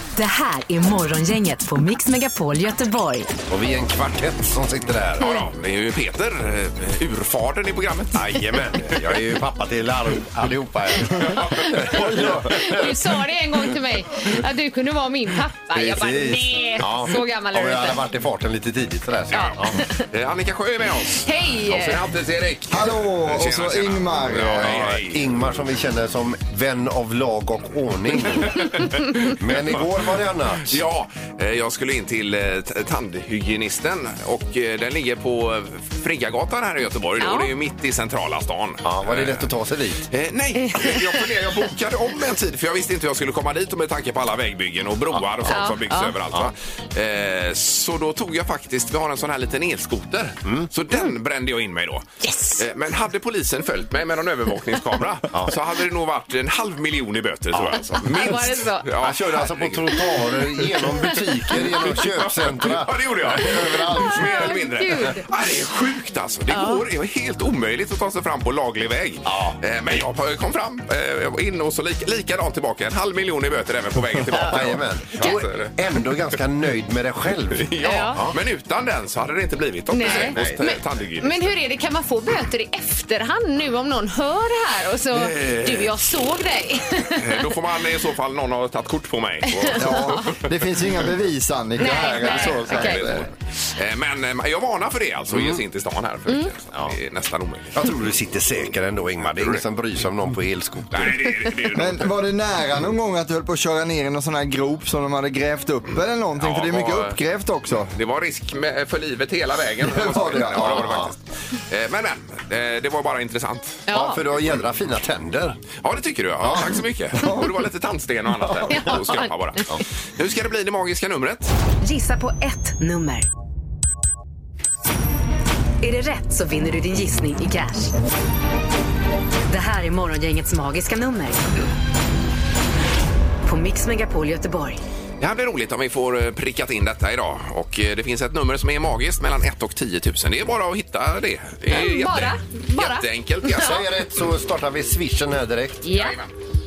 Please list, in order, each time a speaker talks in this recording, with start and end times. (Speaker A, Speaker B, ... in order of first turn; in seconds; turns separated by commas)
Speaker A: 0.1-3.3, Speaker B: 3.5-5.3, Speaker C: 5.2-9.2, Speaker B: 8.1-13.2, Speaker C: 11.2-11.8, Speaker D: 12.2-18.0, Speaker B: 15.7-19.8, Speaker D: 19.3-20.1, Speaker C: 20.1-25.4, Speaker D: 21.2-22.0, Speaker E: 22.7-24.9, Speaker B: 24.5-30.8, Speaker C: 28.6-29.8, Speaker C: 30.7-39.5, Speaker D: 37.2-37.5, Speaker B: 38.8-40.1, Speaker C: 40.1-60.0, Speaker D: 40.6-41.2, Speaker D: 45.5-46.1, Speaker D: 52.2-52.6, Speaker B: 57.5-58.3, Speaker D: 58.1-58.9, Speaker B: 59.0-64.6, Speaker D: 61.1-62.0, Speaker C: 61.5-76.0, Speaker D: 63.9-65.3, Speaker D: 66.5-66.8, Speaker B: 74.3-78.3, Speaker C: 77.5-81.5, Speaker D: 77.8-78.2, Speaker D: 79.9-87.5, Speaker B: 80.0-80.6, Speaker C: 85.2-85.9, Speaker C: 87.2-90.3, Speaker D: 89.6-90.3, Speaker E: 89.8-93.3, Speaker D: 91.8-93.0, Speaker C: 92.2-97.9, Speaker B: 95.3-95.6, Speaker B: 97.7-101.4, Speaker C: 99.2-99.6, Speaker C: 100.9-102.1, Speaker E: 101.7-107.9, Speaker C: 106.4-107.2, Speaker C: 107.9-113.8, Speaker E: 109.8-110.9, Speaker B: 110.5-111.1, Speaker D: 113.9-114.2, Speaker B: 113.9-115.6, Speaker C: 115.8-121.5, Speaker B: 116.4-117.3, Speaker B: 118.4-118.9, Speaker D: 118.7-119.7, Speaker A: 121.8-123.3, Speaker A: 125.8-127.9, Speaker A: 129.5-131.5, Speaker A: 133.4-134.8, Speaker C: 135.2-143.8, Speaker D: 141.7-143.8, Speaker B: 143.5-145.8, Speaker D: 145.8-146.2, Speaker C: 145.9-146.3